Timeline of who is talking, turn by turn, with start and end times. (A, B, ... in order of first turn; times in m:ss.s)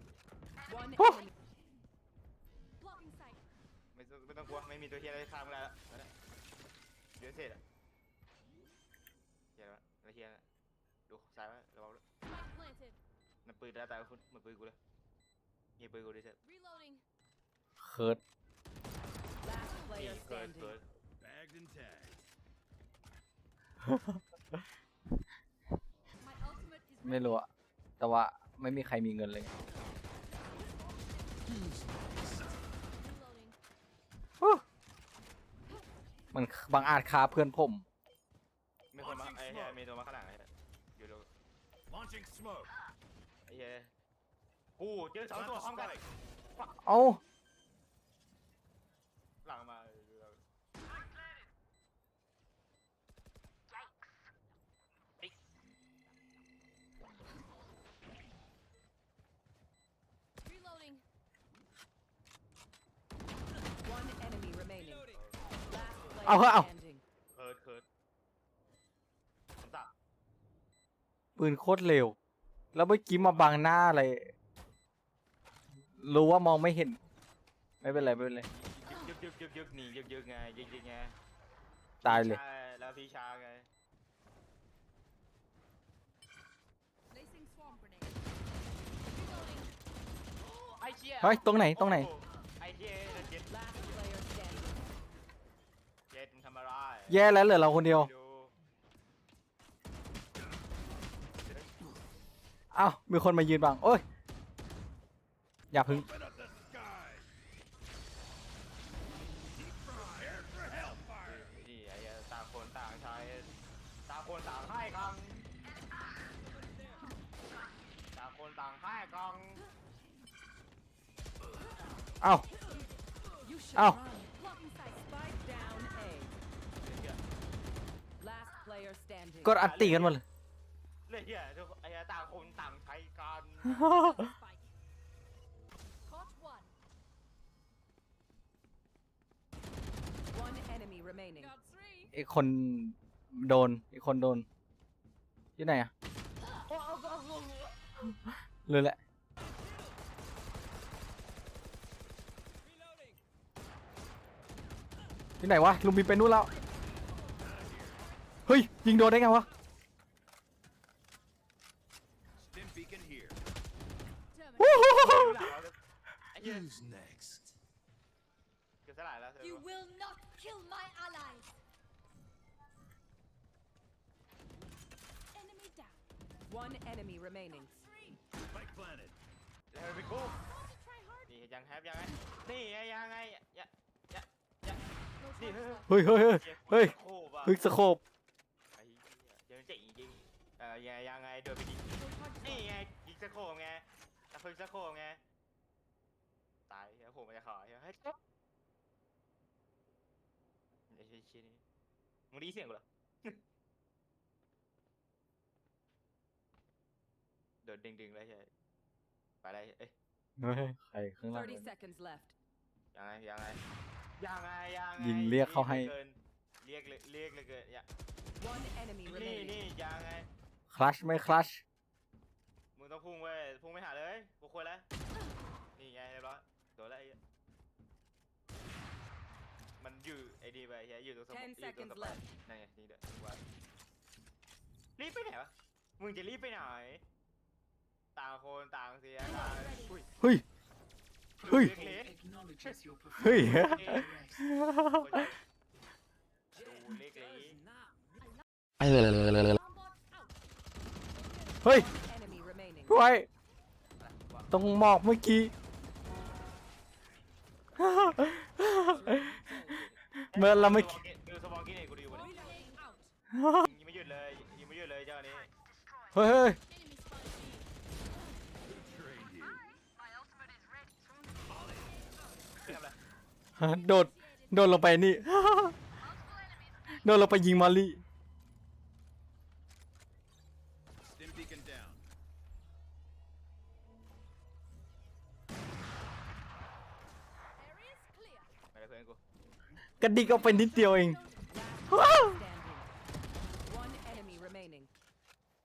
0:00.7-0:01.3 A
0:01.0-0:01.2 B
0:02.8-0:03.4 C
0:03.9-0:06.1 D
0:07.2-0:07.6 D
0:09.6-0:10.4 D
0:11.1-0:12.0 D
0:12.2-0:13.0 C
0:13.4-0:14.8 D
0:15.8-0:16.4 D
0:16.4-0:17.0 C
0:17.8-0:18.2 B
0:19.4-0:20.8 A
0:19.9-0:20.8 D
0:21.2-0:22.2 E
0:23.8-0:24.2 B
0:26.2-0:27.4 C
0:27.0-0:27.5 B
0:28.0-0:29.5 B
0:30.5-0:31.4 C
0:32.9-0:33.6 C
0:36.3-0:37.8 B
0:38.9-0:41.3 D
0:39.0-0:39.8 E
0:41.9-0:42.7 E
0:43.5-0:43.9 D
0:44.8-0:46.0 D
0:45.3-0:46.0 E
0:46.8-0:47.2 B
0:49.4-0:50.4 D
1:00.4-1:01.0 C
1:03.8-1:05.0 A
1:05.1-1:05.4 D
1:05.7-1:07.0 A
1:06.2-1:06.7 B
1:07.3-1:07.9 D
1:09.6-1:09.9 D
1:11.4-1:12.2 B
1:12.7-1:14.3 B
1:13.1-1:13.6 D
1:16.0-1:17.0 B
1:17.8-1:18.5 B
1:17.8-1:21.2 D
1:22.0-1:22.4 B
1:22.0-1:23.7 D
1:27.1-1:28.1 C
1:29.1-1:29.7 C
1:30.4-1:33.5 D
1:31.2-1:32.1 B
1:33.5-1:34.7 A
1:36.1-1:38.6 D
1:37.1-1:38.1 B
1:41.4-1:41.7 D
1:42.7-1:44.0 B
1:45.7-1:46.1 B
1:45.8-1:47.3 E
1:49.6-1:51.5 E
1:51.2-1:53.5 D
1:54.1-1:55.5 D
1:58.1-1:59.7 D
2:02.2-2:02.5 B
2:03.4-2:06.4 A
2:03.8-2:04.0 B
2:06.8-2:07.2 D
2:08.2-2:09.5 A
2:09.4-2:10.2 B
2:09.6-2:10.2 D
2:11.1-2:13.9 D
2:13.7-2:14.2 B
2:13.9-2:14.7 C
2:16.0-2:16.7 C
2:20.3-2:21.5 A
2:21.4-2:22.1 C
2:22.1-2:24.5 B
2:25.6-2:25.9 B
2:26.5-2:27.7 D
2:28.6-2:29.0 B
2:35.4-2:36.5 B
2:37.2-2:38.1 C
2:37.4-2:38.0 E
2:38.5-2:39.5 B
2:42.4-2:43.4 E
2:44.3-2:45.3 C
2:44.6-2:45.5 B
2:44.9-2:45.8 D
2:46.3-2:46.7 D
2:46.7-2:47.5 E
2:48.8-2:49.7 D
2:49.4-2:51.6 C
2:55.3-2:56.0 C
2:56.5-2:57.7 A
2:57.5-2:58.2 C
2:58.5-2:59.2 E
2:59.7-3:00.4 D
3:00.4-3:01.3 C
3:01.3-3:04.8 D
3:05.2-3:05.9 C
3:05.4-3:07.6 D
3:05.9-3:08.0 B
3:08.8-3:11.8 D
3:12.0-3:12.4 C
3:12.1-3:12.6 A
3:12.4-3:15.2 D
3:16.7-3:18.2 D
3:20.9-3:21.6 D
3:22.3-3:23.4 D
3:27.6-3:28.5 D
3:29.4-3:29.9 D
3:30.4-3:31.7 B
3:31.3-3:32.3 A
3:32.9-3:33.6 D
3:34.2-3:37.9 D
3:35.0-3:35.9 B
3:38.4-3:39.6 A
3:39.0-3:40.3 D
3:40.7-3:41.6 B
3:42.8-3:44.9 D
3:45.8-3:47.2 D
3:49.8-3:53.4 D
3:51.3-3:52.2 A
3:55.0-3:57.0 D
3:58.2-4:00.0 D
3:59.2-4:00.0 C
4:01.4-4:02.2 D
4:01.5-4:01.8 B
4:01.9-4:03.5 A
4:03.2-4:05.2 B
4:03.5-4:04.1 D
4:04.9-4:05.4 D
4:06.5-4:07.6 D
4:06.6-4:07.9 A
4:09.3-4:10.4 C
4:11.6-4:11.9 B
4:11.7-4:13.0 A
4:12.9-4:13.3 B
4:14.0-4:14.5 D
4:14.5-4:15.5 B
4:17.8-4:19.2 B
4:18.7-4:19.9 A
4:20.3-4:21.0 B
4:20.3-4:22.4 D
4:22.1-4:23.1 C
4:22.4-4:22.7 A
4:23.3-4:23.7 B
4:23.6-4:25.5 D
4:26.1-4:26.6 B
4:26.7-4:27.7 C
4:28.6-4:29.7 E
4:31.5-4:31.8 E
4:32.0-4:32.5 C
4:32.6-4:33.0 D
4:33.6-4:35.8 B
4:33.8-4:34.7 C
4:37.0-4:38.0 B
4:41.0-4:42.0 E
4:47.6-4:48.5 C
4:48.7-4:49.2 D
4:50.0-4:51.2 B
4:50.3-4:51.4 C
4:51.5-4:52.9 A
4:51.9-4:52.4 B
4:53.6-4:54.9 A